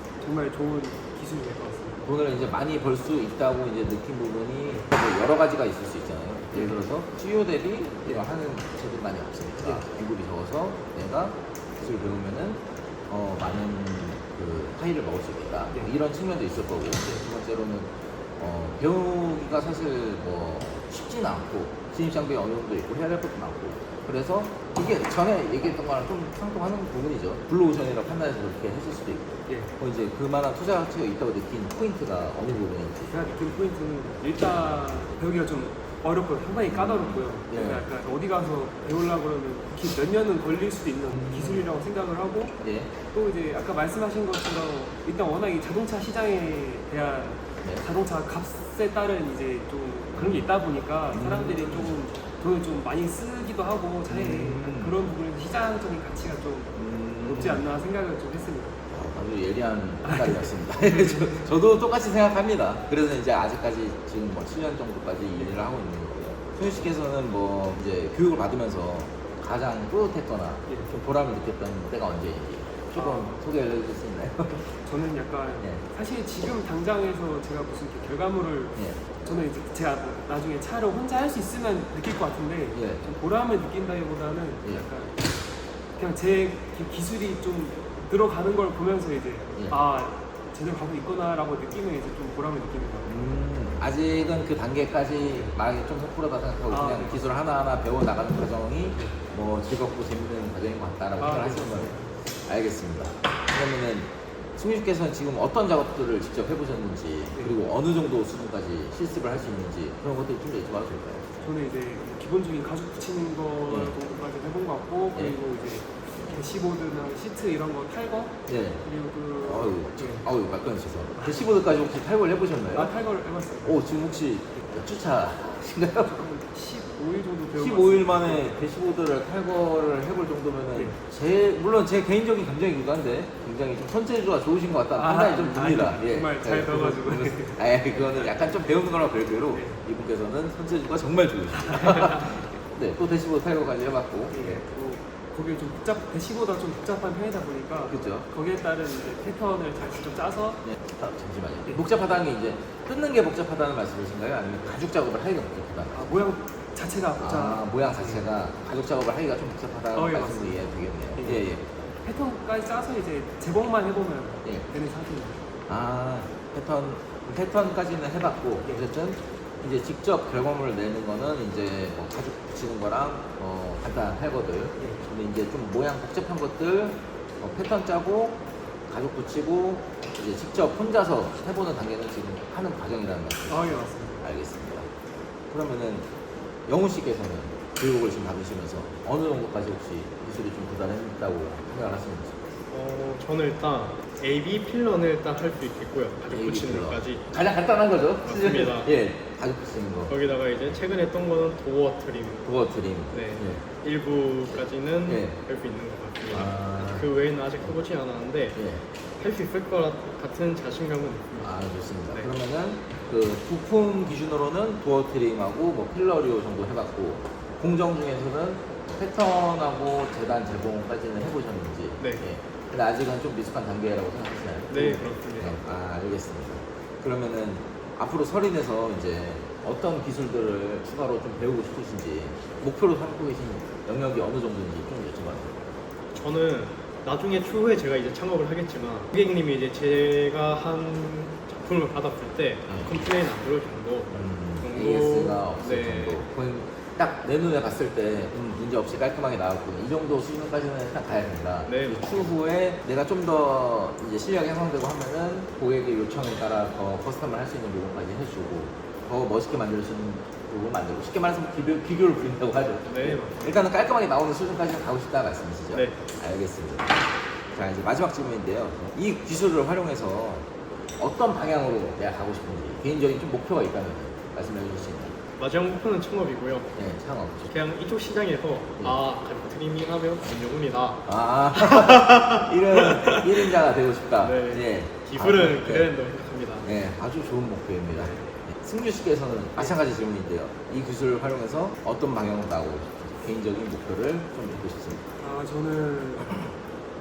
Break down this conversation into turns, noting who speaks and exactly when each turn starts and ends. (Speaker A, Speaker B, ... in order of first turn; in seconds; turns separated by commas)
Speaker A: 0.2-2.0, Speaker B: 2.1-33.1, Speaker A: 6.5-6.8, Speaker A: 9.6-9.8, Speaker A: 33.0-42.5, Speaker B: 36.7-37.8, Speaker B: 41.1-41.7, Speaker B: 42.6-42.9, Speaker A: 43.1-58.8, Speaker B: 50.1-50.5, Speaker B: 51.1-51.9, Speaker B: 54.1-55.0, Speaker B: 56.8-57.6, Speaker B: 58.9-74.6, Speaker A: 60.0-61.5, Speaker A: 65.4-65.6, Speaker A: 73.0-73.3, Speaker A: 74.6-85.2, Speaker B: 82.7-83.0, Speaker A: 86.0-93.3, Speaker B: 93.1-102.0, Speaker A: 95.2-95.6, Speaker A: 96.7-97.2, Speaker A: 98.9-99.2, Speaker A: 101.2-102.1, Speaker B: 102.5-111.3, Speaker A: 111.4-120.2, Speaker B: 113.7-113.9, Speaker B: 118.5-118.8, Speaker B: 119.4-122.9, Speaker A: 121.2-121.5, Speaker A: 122.7-123.8, Speaker B: 123.6-126.2, Speaker A: 126.0-128.6, Speaker B: 127.6-144.6, Speaker A: 134.9-138.5, Speaker A: 139.5-139.8, Speaker A: 141.6-142.4, Speaker A: 144.3-150.6, Speaker B: 147.9-148.2, Speaker B: 150.6-156.2, Speaker A: 155.9-158.2, Speaker B: 157.2-161.8, Speaker A: 159.9-160.6, Speaker A: 161.2-161.4, Speaker A: 162.0-165.4, Speaker B: 165.7-184.9, Speaker A: 183.5-184.2, Speaker B: 185.5-186.1, Speaker B: 186.7-192.4, Speaker C: 192.7-197.2, Speaker B: 196.3-200.1, Speaker C: 198.2-198.9, Speaker C: 200.1-202.5, Speaker B: 202.4-203.7, Speaker C: 203.1-208.6, Speaker B: 205.1-205.4, Speaker B: 206.3-207.1, Speaker B: 208.6-208.8, Speaker C: 209.2-211.5, Speaker B: 211.4-235.6, Speaker C: 224.7-225.6, Speaker C: 236.1-246.2, Speaker B: 244.1-267.0, Speaker C: 251.7-252.2, Speaker C: 262.9-263.4, Speaker B: 267.5-270.5, Speaker B: 271.0-275.1, Speaker C: 275.4-276.7, Speaker B: 276.8-277.5, Speaker C: 277.5-281.0, Speaker B: 281.1-285.9, Speaker C: 281.6-282.2, Speaker C: 282.7-283.5, Speaker C: 284.2-286.7, Speaker B: 286.6-295.0, Speaker A: 295.2-296.4